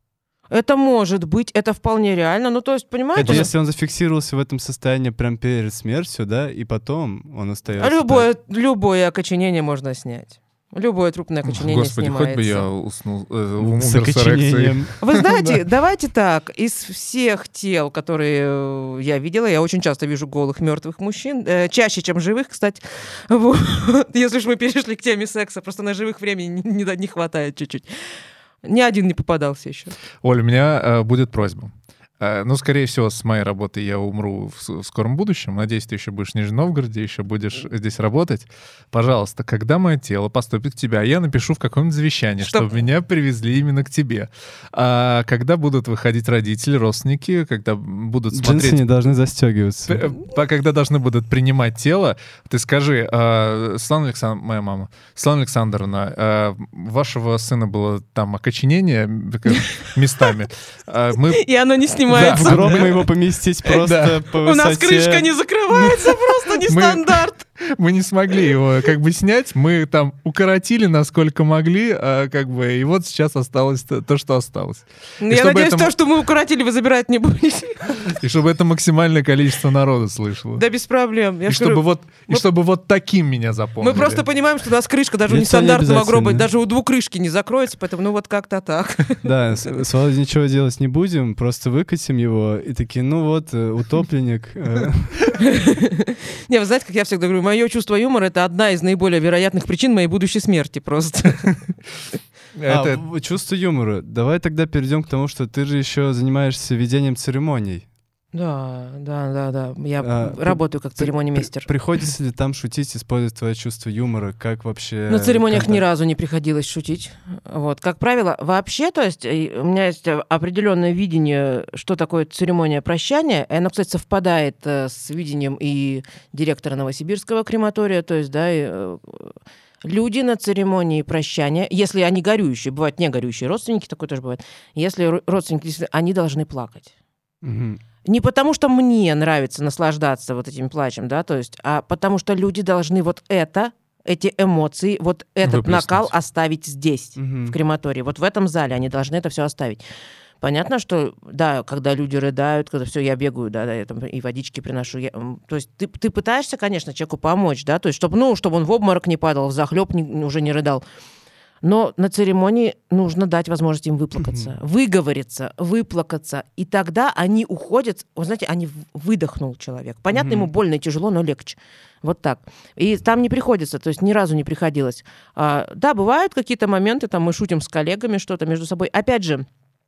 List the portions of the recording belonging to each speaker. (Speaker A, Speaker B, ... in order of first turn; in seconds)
Speaker A: 0.5-3.5, 7.8-12.6, 15.0-30.0, 42.4-42.7, 59.5-60.3, 61.3-62.9, 64.3-67.4, 75.2-78.2, 80.6-82.4, 83.8-89.2, 95.4-101.7, 108.3-111.7, 115.1-136.9, 138.1-149.8, 150.4-160.8, 161.6-179.5
Speaker B: 3.1-8.3, 13.6-15.0, 48.3-50.0, 62.1-66.2, 85.3-86.5, 89.2-95.2, 102.7-107.9, 110.0-115.8, 137.4-137.8, 147.2-147.6, 164.2-164.5, 170.1-170.5
Speaker C: 11.5-15.5, 30.2-48.8, 49.9-61.5, 62.1-63.0, 63.8-64.2, 66.7-75.9, 78.2-80.6, 81.5-84.2, 102.5-103.0, 145.4-146.1